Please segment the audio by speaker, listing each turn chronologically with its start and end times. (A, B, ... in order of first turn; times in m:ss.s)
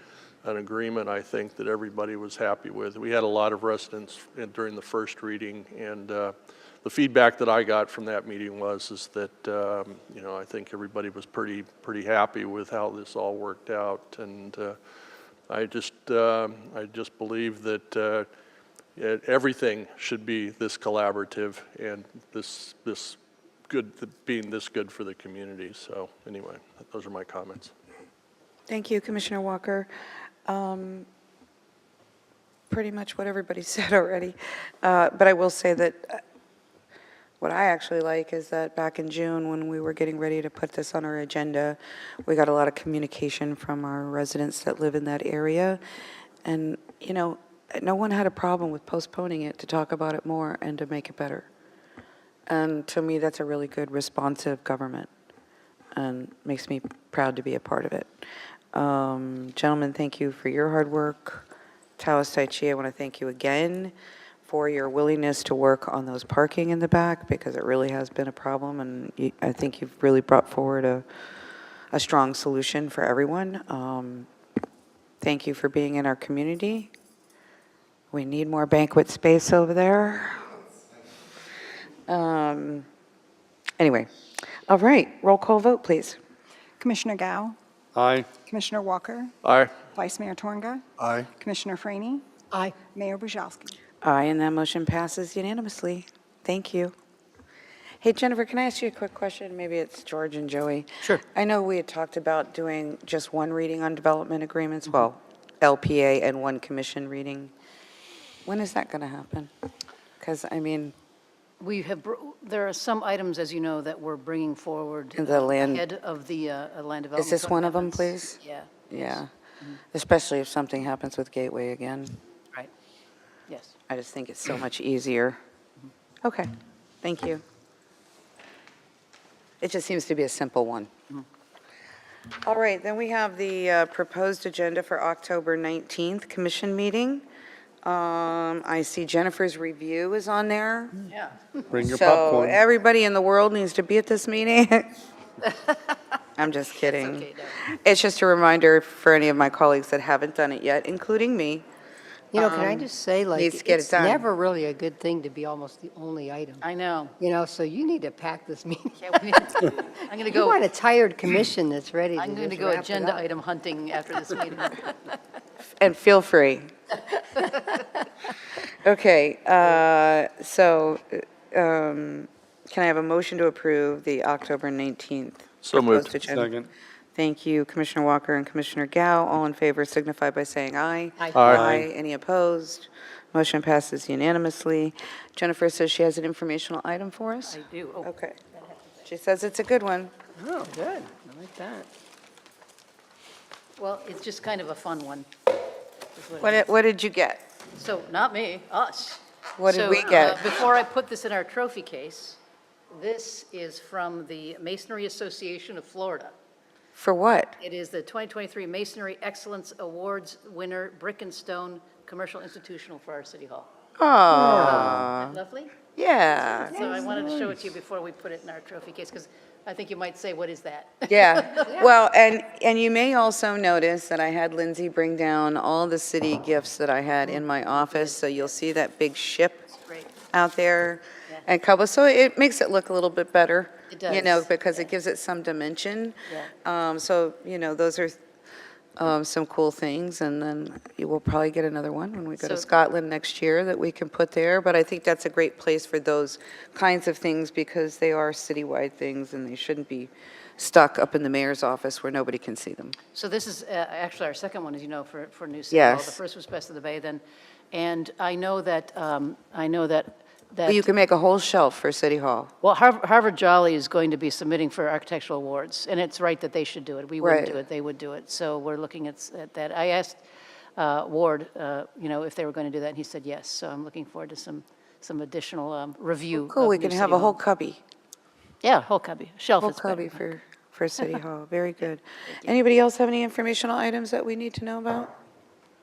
0:00.4-0:14.8 A
0:15.5-0:18.3 A
0:19.0-0:27.7 A
0:28.7-0:29.9 B
0:30.4-0:31.1 B
0:32.7-0:36.2 B
0:37.4-0:45.8 B
0:46.4-0:51.5 B
0:52.5-0:55.1 B
0:55.9-0:58.1 B
0:58.7-1:01.5 B
1:02.0-1:03.9 B
1:04.4-1:11.0 B
1:11.9-1:14.3 B
1:15.2-1:16.9 B
1:18.1-1:20.5 B
1:22.1-1:22.9 B
1:23.8-1:24.1 B
1:24.7-1:26.2 B
1:26.8-1:27.6 C
1:27.9-1:28.3 D
1:28.4-1:29.3 C
1:29.4-1:29.8 A
1:29.9-1:33.7 C
1:31.0-1:31.3 D
1:34.0-1:36.9 B
1:38.0-1:47.5 B
1:48.4-1:49.5 B
1:50.2-1:50.9 B
1:51.6-1:59.8 E
1:55.2-1:55.8 B
1:57.2-1:58.4 B
1:58.9-1:59.3 B
1:59.9-2:02.2 B
2:03.5-2:03.8 E
2:03.9-2:05.4 B
2:06.2-2:06.5 B
2:07.0-2:07.4 B
2:09.6-2:10.9 B
2:12.4-2:17.2 B
2:17.8-2:21.0 B
2:21.1-2:21.6 E
2:21.7-2:22.6 D
2:21.8-2:24.9 B
2:26.4-2:31.6 B
2:26.8-2:27.6 E
2:32.3-2:34.3 B
2:32.3-2:36.6 F
2:36.6-2:37.1 E
2:37.2-2:43.2 F
2:39.0-2:40.6 E
2:42.2-2:45.1 E
2:45.8-2:46.7 B
2:48.8-2:56.6 B
2:55.6-2:56.1 A
2:56.2-2:56.7 D
2:57.1-3:08.4 B
3:01.3-3:01.9 D
3:01.4-3:01.7 A
3:07.4-3:08.8 E
3:09.0-3:10.1 B
3:10.4-3:11.8 F
3:10.7-3:11.1 E
3:13.8-3:15.3 E
3:16.1-3:16.7 E
3:16.4-3:17.5 B
3:17.7-3:22.4 E
3:19.6-3:20.5 B
3:22.9-3:26.3 E
3:27.0-3:27.5 B
3:27.6-3:33.7 E
3:34.0-3:35.4 B
3:34.3-3:35.8 E
3:36.0-3:36.9 B
3:36.4-3:41.8 E
3:41.1-3:49.6 B
3:47.2-3:48.5 E
3:49.8-3:50.1 E
3:50.3-3:58.2 B
3:53.9-3:54.8 E
3:59.0-4:13.0 B
4:02.4-4:02.7 E
4:13.1-4:20.9 E
4:15.7-4:16.2 B
4:20.6-4:22.5 B
4:22.6-4:30.2 E
4:27.2-4:27.6 B
4:30.8-4:37.4 E
4:36.3-4:37.8 B
4:38.6-4:40.2 E
4:39.6-4:45.1 B